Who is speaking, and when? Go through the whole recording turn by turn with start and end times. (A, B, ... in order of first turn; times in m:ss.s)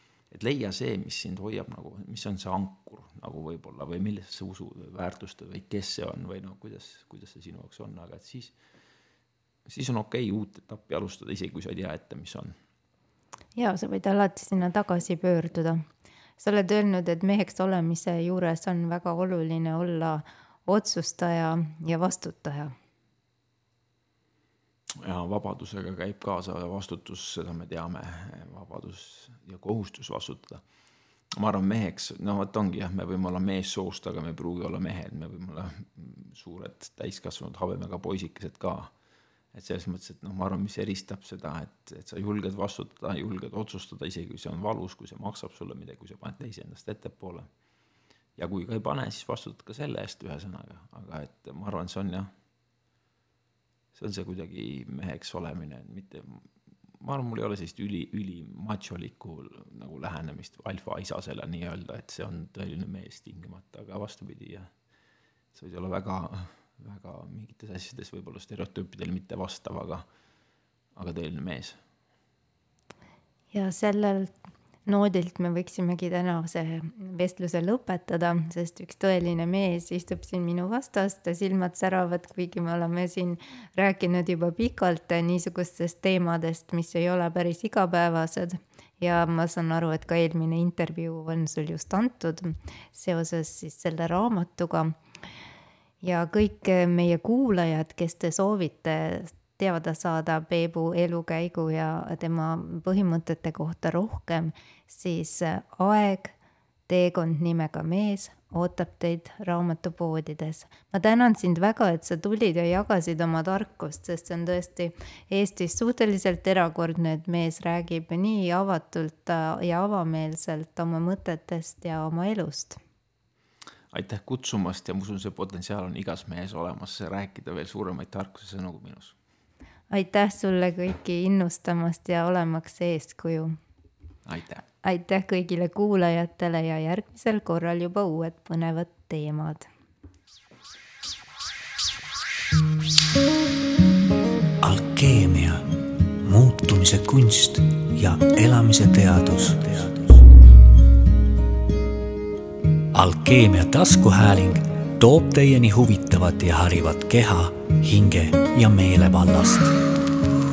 0:00.3-0:08.6 A
0:09.7-0:12.5 A
0:13.6-0:15.8 B
0:16.4-0:22.7 B
0:25.0-0:30.6 A
0:31.3-0:38.9 A
0:39.5-0:47.5 A
0:48.4-0:52.3 A
0:53.9-0:56.4 A
0:57.0-1:04.7 A
1:05.5-1:10.0 A
1:11.0-1:11.8 A
1:13.5-1:14.3 B
1:14.9-1:34.9 B
1:36.0-1:46.4 B
1:46.9-2:02.8 B
2:03.9-2:09.2 A
2:09.9-2:13.6 B
2:14.3-2:14.6 A
2:14.8-2:19.7 B
2:24.6-2:25.7 C
2:26.2-2:30.3 C
2:32.9-2:39.8 C